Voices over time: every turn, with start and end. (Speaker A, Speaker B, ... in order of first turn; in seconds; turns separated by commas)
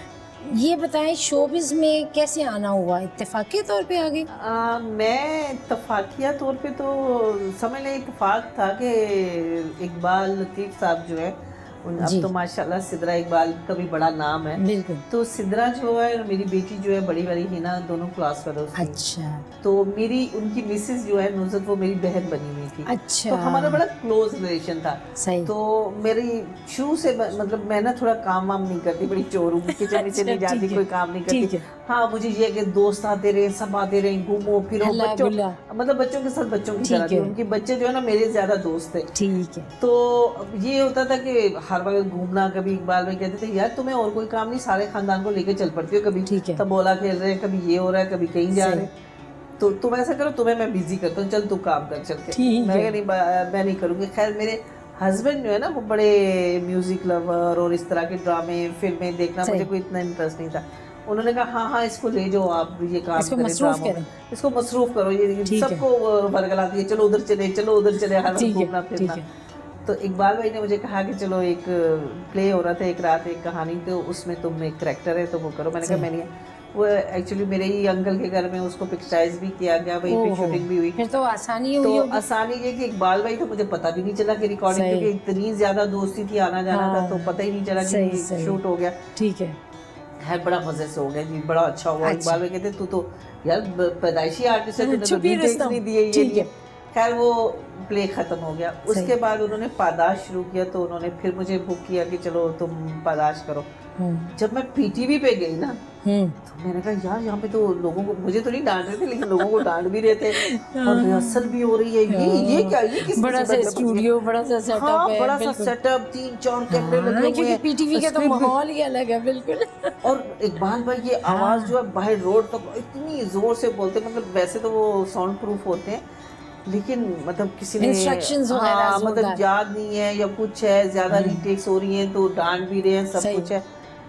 Speaker A: 0.4-4.3, Speaker B: 4.3-19.0, Speaker A: 12.0-12.3, Speaker A: 14.6-15.1, Speaker A: 18.8-19.4, Speaker B: 19.6-39.1, Speaker A: 22.9-23.8, Speaker A: 25.2-25.5, Speaker A: 29.7-31.6, Speaker A: 34.8-35.6, Speaker A: 36.8-37.3, Speaker A: 39.1-39.7, Speaker B: 39.8-48.9, Speaker A: 46.2-46.6, Speaker A: 48.5-48.9, Speaker B: 49.6-69.2, Speaker A: 52.3-52.9, Speaker A: 63.2-64.1, Speaker A: 65.5-65.8, Speaker A: 68.3-69.2, Speaker B: 69.8-81.0, Speaker A: 75.8-76.1, Speaker A: 80.1-82.2, Speaker B: 81.8-89.0, Speaker A: 84.7-85.1, Speaker A: 86.7-88.6, Speaker A: 89.1-89.6, Speaker B: 90.2-103.7, Speaker A: 92.0-92.4, Speaker A: 94.8-96.5, Speaker A: 104.0-104.3, Speaker B: 104.3-105.8, Speaker A: 106.0-106.4, Speaker B: 106.4-114.1, Speaker A: 110.2-111.5, Speaker A: 112.1-115.7, Speaker B: 114.7-118.5, Speaker A: 116.7-120.0, Speaker B: 120.0-126.0, Speaker A: 121.3-121.7, Speaker B: 126.6-133.6, Speaker A: 127.8-129.4, Speaker A: 131.1-131.4, Speaker A: 133.2-133.5